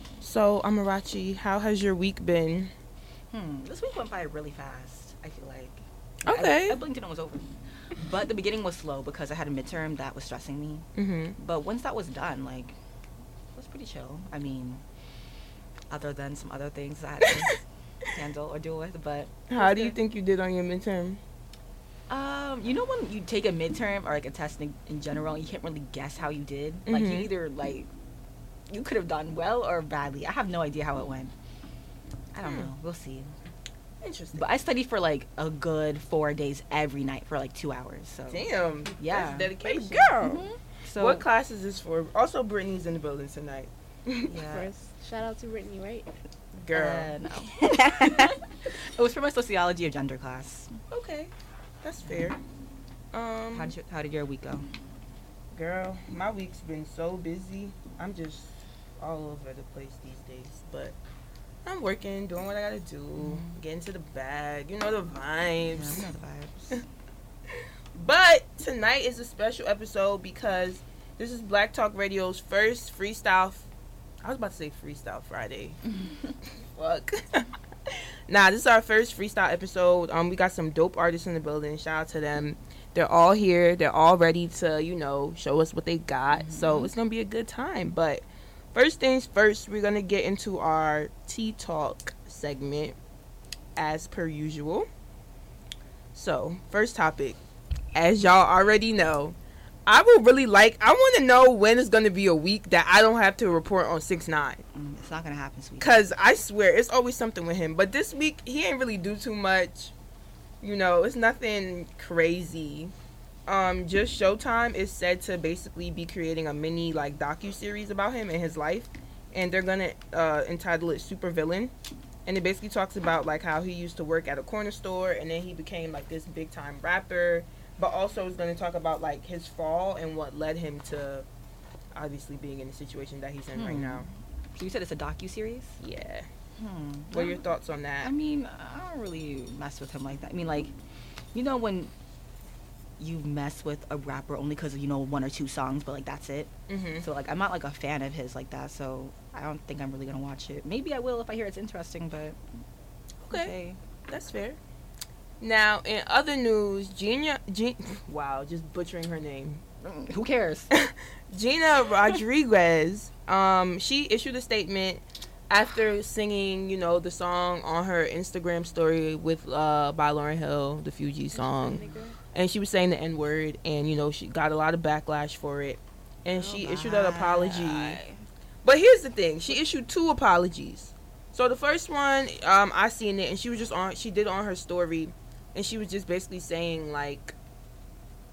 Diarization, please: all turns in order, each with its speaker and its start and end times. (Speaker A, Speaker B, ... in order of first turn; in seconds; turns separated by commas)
Speaker A: 0.2-2.7, Speaker B: 3.3-12.8, Speaker A: 6.2-6.8, Speaker A: 10.9-11.3, Speaker B: 13.5-14.8, Speaker B: 15.9-19.9, Speaker A: 19.5-21.2, Speaker B: 22.1-27.9, Speaker A: 26.9-27.3, Speaker B: 28.7-31.3, Speaker B: 32.3-33.3, Speaker A: 32.4-32.7, Speaker A: 34.0-34.5, Speaker B: 34.3-38.5, Speaker A: 38.3-40.4, Speaker B: 39.0-41.2, Speaker C: 40.0-40.4, Speaker A: 41.0-44.3, Speaker B: 44.3-44.7, Speaker C: 44.5-46.1, Speaker A: 46.6-47.1, Speaker B: 46.7-48.4, Speaker B: 48.9-50.8, Speaker A: 50.9-51.3, Speaker A: 51.8-52.4, Speaker B: 52.0-52.3, Speaker A: 53.1-53.8, Speaker B: 53.5-54.7, Speaker A: 55.5-60.9, Speaker A: 61.6-66.0, Speaker B: 63.2-63.6, Speaker B: 65.7-66.8, Speaker A: 67.9-73.7, Speaker A: 74.2-75.8, Speaker B: 75.9-76.2, Speaker A: 76.7-93.0, Speaker B: 86.3-86.9, Speaker A: 93.8-94.9, Speaker A: 96.1-97.4, Speaker A: 97.9-99.3, Speaker A: 99.9-104.6, Speaker B: 104.7-106.0, Speaker A: 105.8-109.9, Speaker A: 110.6-112.9, Speaker A: 113.5-121.7, Speaker A: 122.2-131.2, Speaker A: 131.9-134.1, Speaker B: 133.5-135.8, Speaker A: 135.8-136.3, Speaker B: 136.6-137.4, Speaker A: 137.1-138.1, Speaker B: 138.0-140.7, Speaker B: 141.3-141.9, Speaker B: 143.0-152.4, Speaker A: 146.7-147.1, Speaker A: 153.2-153.5, Speaker B: 153.3-153.8, Speaker A: 154.1-154.6, Speaker A: 155.4-159.6, Speaker B: 159.8-160.7, Speaker A: 160.7-178.0, Speaker C: 171.3-172.1, Speaker B: 171.6-172.0, Speaker B: 176.3-178.2, Speaker A: 178.6-187.3